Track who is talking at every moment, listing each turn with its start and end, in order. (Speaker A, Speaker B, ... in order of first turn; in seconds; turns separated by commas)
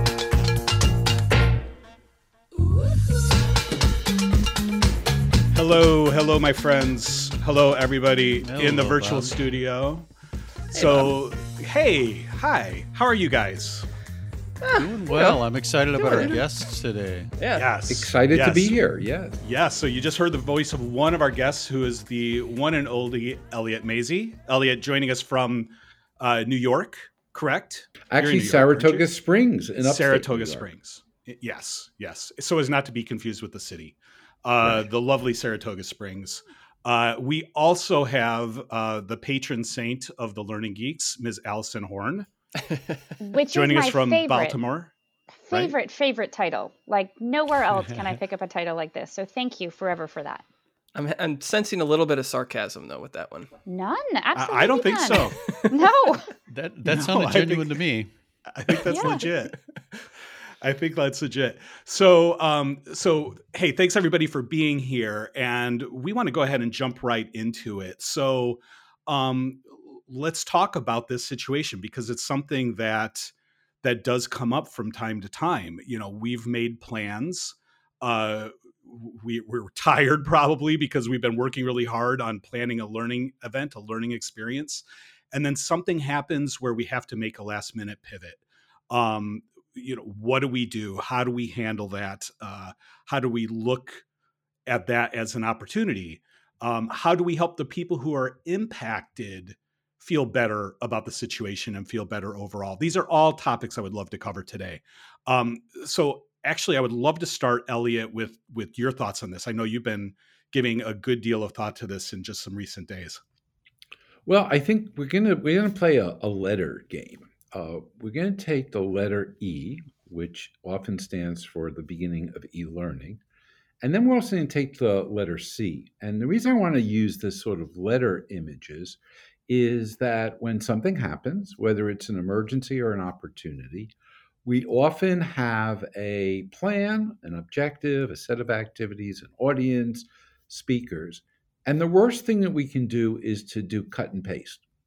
Speaker A: 5.5-10.1, Speaker B: 8.4-9.4, Speaker A: 10.7-13.9, Speaker C: 10.8-11.1, Speaker C: 14.6-15.4, Speaker B: 14.7-17.3, Speaker C: 16.0-16.4, Speaker C: 17.4-17.6, Speaker A: 17.5-18.7, Speaker D: 17.9-19.4, Speaker A: 19.4-29.1, Speaker D: 28.1-30.7, Speaker A: 29.8-42.3, Speaker E: 43.2-44.6, Speaker A: 43.5-44.9, Speaker E: 45.5-50.4, Speaker C: 50.9-53.5, Speaker E: 53.6-56.3, Speaker A: 54.3-55.7, Speaker B: 56.5-58.1, Speaker A: 56.8-57.8, Speaker A: 58.5-60.1, Speaker E: 58.9-59.3, Speaker A: 60.6-94.0, Speaker A: 94.7-113.2, Speaker D: 114.2-123.2, Speaker D: 123.8-133.9, Speaker D: 134.4-144.6